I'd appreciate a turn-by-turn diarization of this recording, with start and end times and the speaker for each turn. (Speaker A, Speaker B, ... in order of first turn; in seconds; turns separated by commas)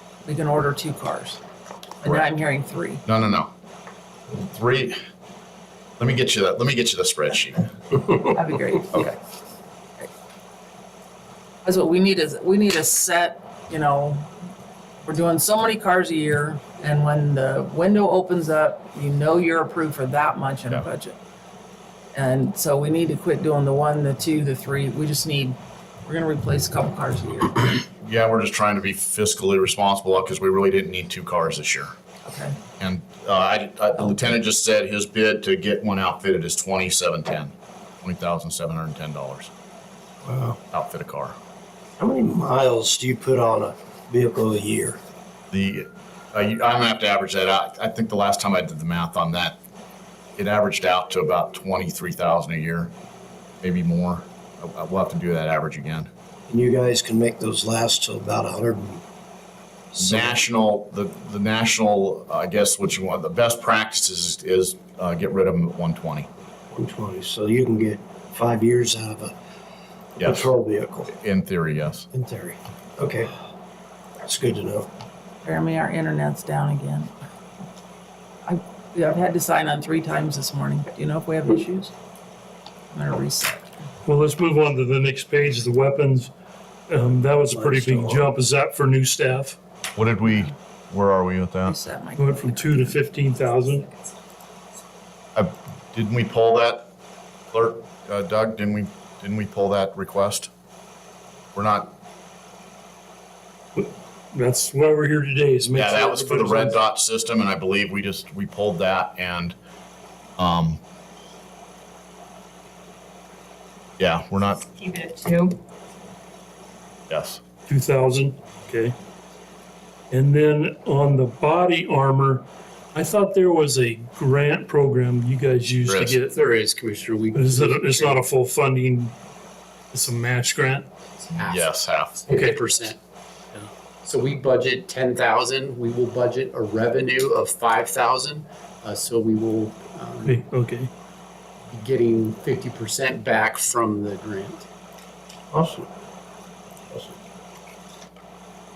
Speaker A: 0.2-1.4, Speaker A: 2.0-3.0, Speaker B: 3.0-3.5, Speaker B: 4.3-5.0, Speaker B: 6.0-7.7, Speaker A: 8.2-9.2, Speaker A: 11.6-14.3, Speaker A: 15.1-21.2, Speaker A: 22.1-27.7, Speaker B: 28.0-31.9, Speaker A: 32.2-32.6, Speaker B: 32.8-39.5, Speaker C: 40.2-40.6, Speaker B: 40.7-41.4, Speaker C: 42.0-45.0, Speaker B: 45.5-49.6, Speaker B: 50.4-52.9, Speaker B: 53.6-56.1, Speaker C: 56.5-59.0, Speaker C: 59.9-60.4, Speaker B: 60.0-66.3, Speaker C: 66.7-69.3, Speaker B: 70.2-70.5, Speaker C: 70.2-71.1, Speaker B: 71.1-72.1, Speaker C: 72.1-73.3, Speaker C: 74.2-74.9, Speaker A: 75.4-77.1, Speaker A: 78.5-81.9, Speaker A: 82.9-83.9, Speaker D: 84.0-86.3, Speaker D: 86.9-89.6, Speaker C: 87.5-88.3, Speaker B: 90.0-91.8, Speaker A: 91.7-93.0, Speaker D: 92.2-93.9, Speaker B: 95.4-96.9, Speaker B: 97.5-100.5, Speaker B: 101.5-101.9, Speaker D: 103.8-106.8, Speaker B: 105.7-109.5, Speaker B: 110.4-110.8, Speaker B: 114.0-114.7, Speaker B: 117.1-117.4, Speaker D: 117.7-119.0, Speaker D: 120.1-126.4, Speaker B: 125.9-126.2, Speaker E: 126.3-128.2, Speaker D: 127.3-129.2, Speaker D: 129.9-130.9, Speaker E: 131.3-133.0, Speaker B: 131.4-132.2, Speaker D: 132.3-132.6, Speaker E: 134.0-140.4, Speaker D: 140.2-140.9, Speaker E: 141.7-144.7, Speaker C: 145.5-145.9